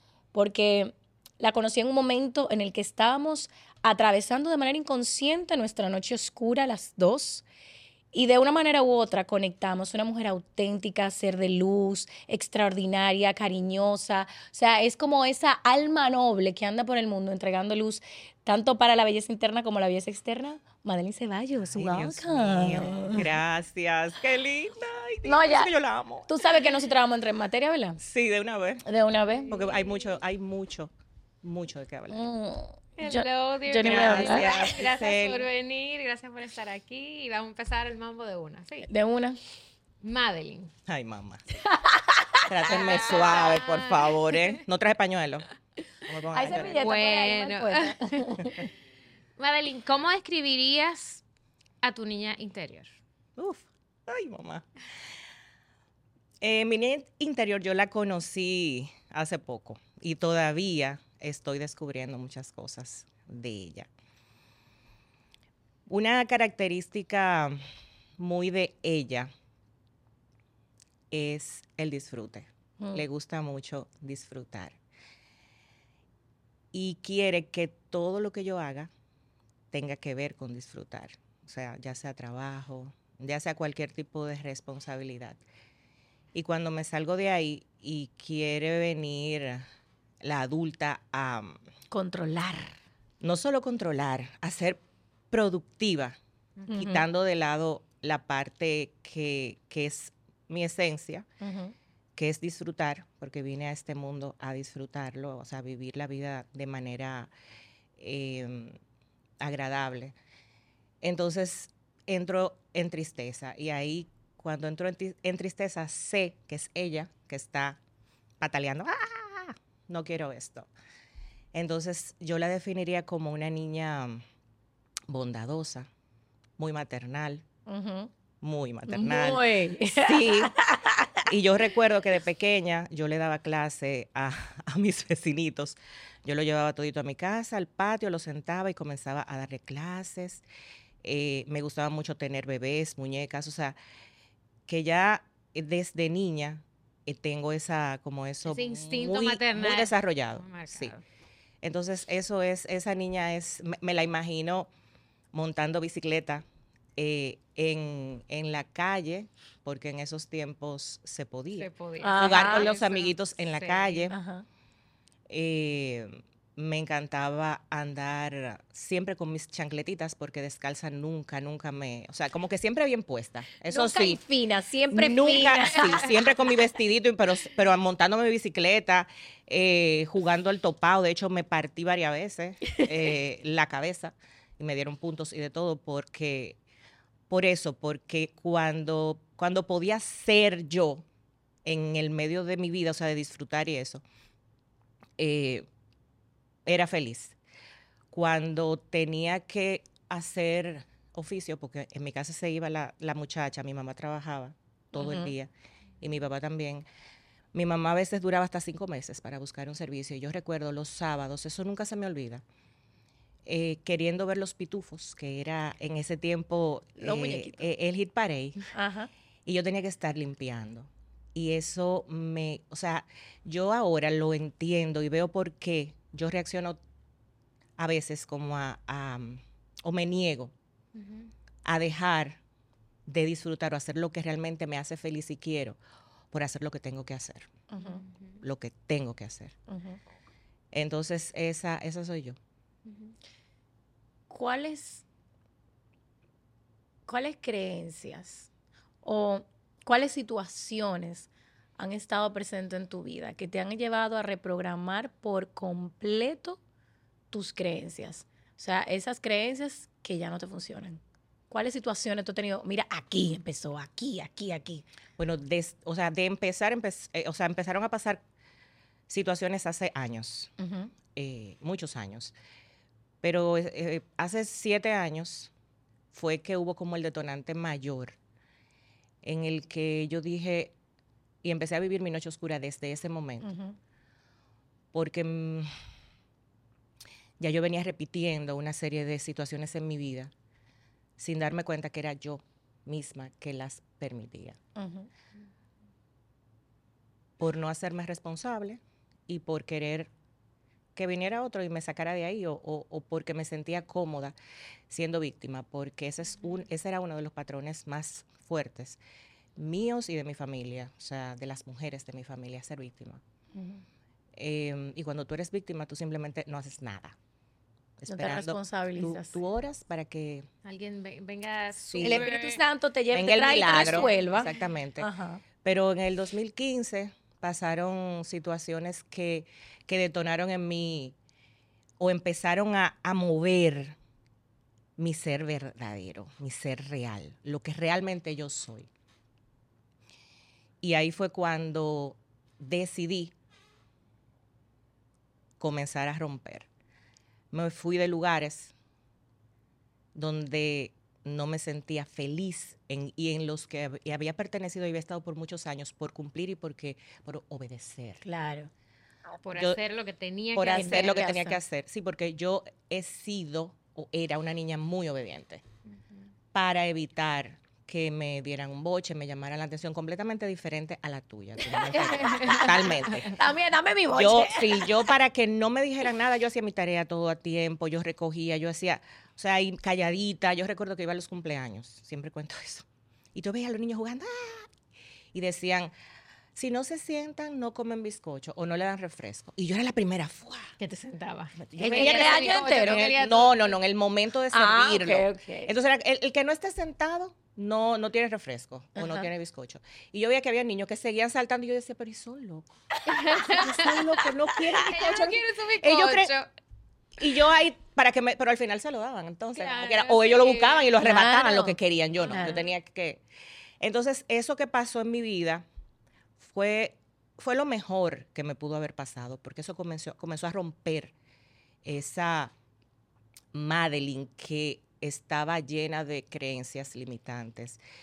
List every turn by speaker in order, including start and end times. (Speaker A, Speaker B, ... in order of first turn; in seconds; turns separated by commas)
Speaker A: 0.3-7.5, Speaker A: 8.1-23.3, Speaker B: 21.7-26.3, Speaker A: 25.2-25.7, Speaker A: 26.3-28.0, Speaker B: 28.0-28.8, Speaker A: 28.8-29.5, Speaker B: 29.5-32.2, Speaker A: 32.1-34.5, Speaker C: 33.0-38.9, Speaker B: 33.8-35.4, Speaker A: 38.9-39.4, Speaker C: 40.0-40.7, Speaker B: 40.9-41.4, Speaker A: 41.6-42.5, Speaker B: 42.5-45.5, Speaker C: 42.7-44.1, Speaker B: 46.0-46.8, Speaker A: 46.3-48.6, Speaker C: 46.7-48.6, Speaker C: 49.4-51.2, Speaker C: 51.8-52.9, Speaker B: 53.4-54.6, Speaker B: 56.4-63.9, Speaker B: 65.9-67.6, Speaker B: 68.2-69.3, Speaker B: 71.1-74.8, Speaker B: 76.7-78.9, Speaker B: 79.7-85.4, Speaker B: 86.3-89.7, Speaker B: 90.2-91.6, Speaker A: 91.9-92.7, Speaker B: 93.2-101.2, Speaker A: 96.7-97.0, Speaker A: 101.4-101.7, Speaker B: 102.2-107.3, Speaker B: 108.0-108.8, Speaker B: 109.4-110.1, Speaker B: 111.0-117.8, Speaker B: 118.4-120.7, Speaker B: 121.5-124.2, Speaker B: 125.1-125.9, Speaker B: 126.6-127.4, Speaker A: 127.7-128.1, Speaker B: 128.4-130.5, Speaker A: 128.9-131.2, Speaker B: 131.3-140.4, Speaker B: 141.0-143.8, Speaker B: 144.7-150.9, Speaker C: 148.4-151.0, Speaker B: 151.6-154.7, Speaker B: 155.3-156.4, Speaker B: 156.9-164.2, Speaker C: 161.6-164.1, Speaker A: 162.0-162.7, Speaker A: 164.1-164.4, Speaker B: 165.3-174.2, Speaker A: 173.7-176.1, Speaker B: 174.9-186.6, Speaker B: 187.3-191.1, Speaker B: 191.6-194.0, Speaker B: 195.2-195.7, Speaker B: 196.7-197.4, Speaker B: 198.1-206.8, Speaker A: 204.9-205.3, Speaker B: 207.5-212.4, Speaker B: 213.4-218.6, Speaker A: 217.0-217.7, Speaker A: 218.7-219.1, Speaker B: 219.4-226.8, Speaker B: 227.8-230.5, Speaker C: 230.9-231.3, Speaker B: 231.6-232.4, Speaker B: 233.1-235.8, Speaker B: 236.3-237.5, Speaker A: 237.7-238.0, Speaker C: 237.8-238.4, Speaker B: 238.4-239.5, Speaker A: 239.7-240.0, Speaker B: 240.7-242.4, Speaker C: 242.9-243.1, Speaker A: 244.3-245.0, Speaker A: 247.1-248.5, Speaker A: 249.0-256.6, Speaker A: 257.3-264.8, Speaker B: 265.2-268.2, Speaker B: 269.1-270.5, Speaker A: 270.6-270.9, Speaker B: 271.1-272.3, Speaker B: 273.2-275.5, Speaker B: 276.1-278.2, Speaker B: 279.2-280.7, Speaker B: 281.4-283.5, Speaker A: 283.4-283.8, Speaker B: 284.9-285.7, Speaker B: 287.4-290.3, Speaker B: 291.2-294.6, Speaker A: 294.8-295.1, Speaker B: 297.4-300.1, Speaker B: 300.9-304.4, Speaker B: 304.9-309.0, Speaker B: 309.6-313.2, Speaker A: 313.5-313.8, Speaker B: 314.3-317.1, Speaker B: 318.0-320.5, Speaker A: 318.1-319.4, Speaker C: 320.6-322.6, Speaker B: 321.8-322.3, Speaker A: 322.0-325.4, Speaker B: 323.1-325.1, Speaker C: 323.5-324.5, Speaker B: 325.6-331.1, Speaker B: 332.0-334.0, Speaker B: 335.0-338.9, Speaker B: 340.8-343.3, Speaker B: 345.6-346.7, Speaker B: 347.5-348.7, Speaker B: 350.1-358.2, Speaker A: 358.2-358.7, Speaker C: 359.4-361.3, Speaker B: 360.5-365.6, Speaker A: 360.7-361.6, Speaker B: 366.5-373.4, Speaker A: 371.7-375.1, Speaker C: 372.2-373.2, Speaker B: 374.1-384.7, Speaker B: 385.3-385.9, Speaker B: 386.5-390.7, Speaker C: 390.8-393.8, Speaker B: 391.6-402.7, Speaker A: 391.8-393.2, Speaker A: 394.5-395.7, Speaker A: 398.9-399.3, Speaker A: 403.1-404.9, Speaker C: 403.1-403.8, Speaker B: 403.4-406.3, Speaker C: 404.8-406.5, Speaker B: 407.2-413.2, Speaker C: 409.5-410.9, Speaker A: 411.0-411.8, Speaker C: 412.2-412.7, Speaker A: 412.3-412.6, Speaker B: 413.8-415.6, Speaker B: 416.4-421.1, Speaker B: 421.8-422.5, Speaker B: 423.5-427.8